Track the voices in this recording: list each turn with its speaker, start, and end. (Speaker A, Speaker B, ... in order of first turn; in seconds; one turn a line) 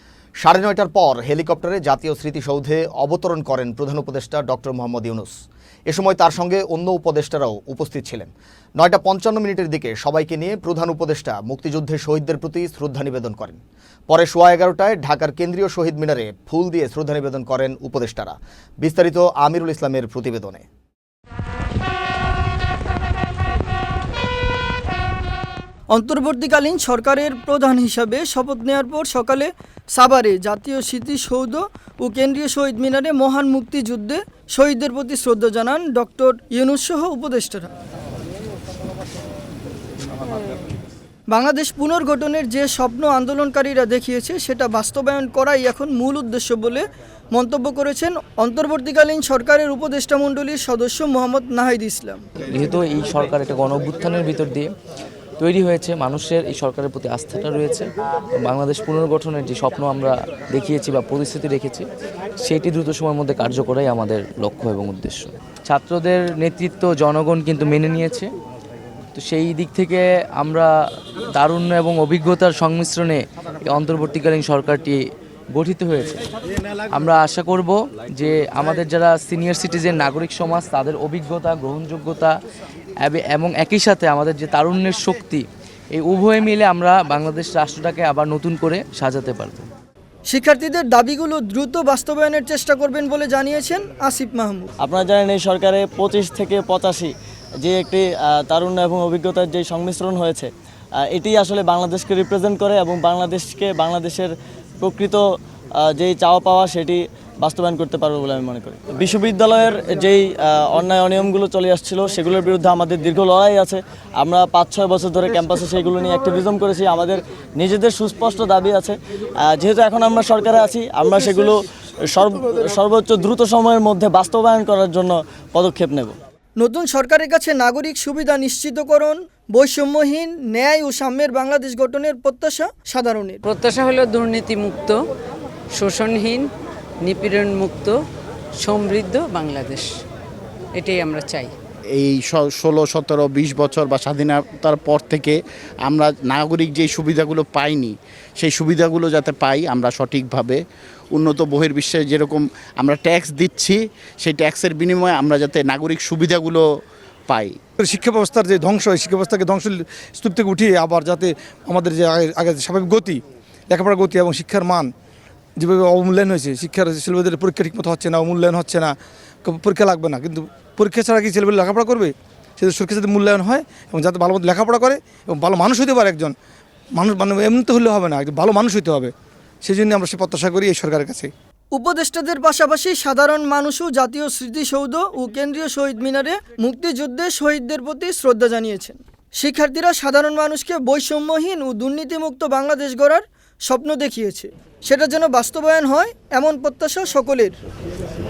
Speaker A: 0.4-5.3
Speaker A: 5.9-20.6
Speaker B: 25.9-37.7
Speaker B: 41.3-52.2
Speaker C: 52.5-54.7
Speaker C: 55.4-61.9
Speaker C: 62.4-68.3
Speaker C: 69.1-70.7
Speaker C: 71.3-75.0
Speaker C: 75.5-76.2
Speaker C: 76.9-82.3
Speaker C: 83.0-89.7
Speaker B: 90.3-94.7
Speaker D: 94.8-126.2
Speaker B: 126.6-133.4
Speaker E: 133.5-135.0
Speaker E: 135.8-136.5
Speaker E: 137.0-138.0
Speaker E: 138.6-139.9
Speaker E: 140.8-141.5
Speaker F: 141.9-150.6
Speaker F: 151.1-156.6
Speaker F: 157.3-157.6
Speaker G: 157.8-164.9
Speaker G: 165.6-168.9
Speaker G: 169.4-176.3
Speaker G: 177.0-179.1
Speaker G: 179.6-181.3
Speaker B: 181.7-197.6